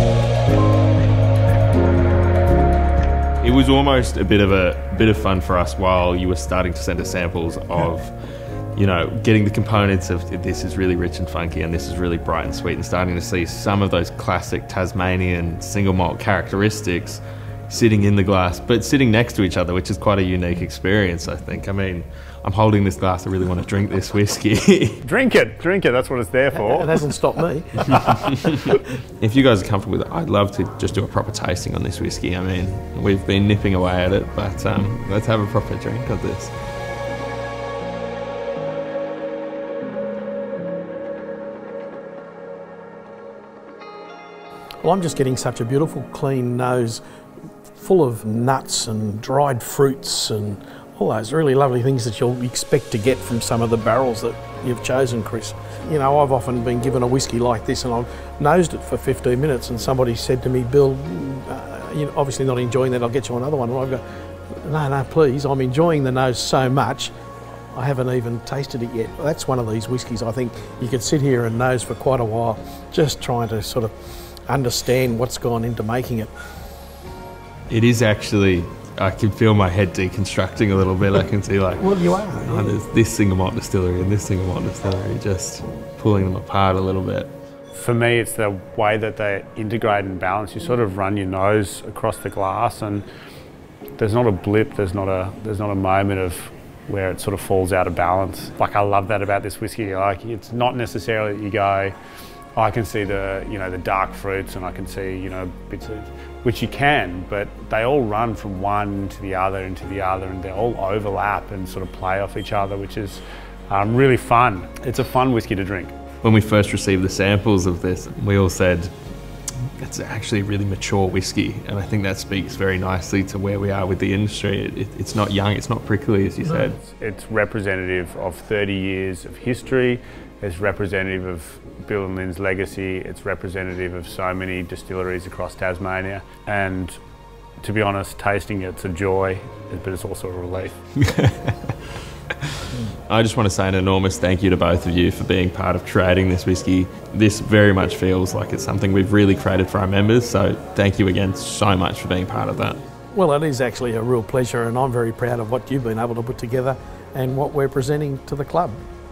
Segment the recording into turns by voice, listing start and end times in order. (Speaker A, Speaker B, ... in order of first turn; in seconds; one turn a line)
Speaker A: 3.4-8.1
Speaker A: 8.8-25.0
Speaker B: 25.0-27.1
Speaker C: 26.5-28.3
Speaker A: 29.2-36.5
Speaker C: 44.8-47.0
Speaker C: 47.7-64.0
Speaker C: 64.6-67.1
Speaker C: 67.7-73.9
Speaker C: 74.5-76.3
Speaker A: 77.7-87.3
Speaker C: 81.8-82.7
Speaker B: 87.7-93.0
Speaker B: 94.0-102.0
Speaker B: 102.6-116.0
Speaker A: 116.2-118.9
Speaker A: 119.8-126.8
Speaker B: 126.5-137.0
Speaker B: 137.6-140.8
Speaker A: 141.0-141.8
Speaker A: 142.6-152.8
Speaker C: 153.1-158.8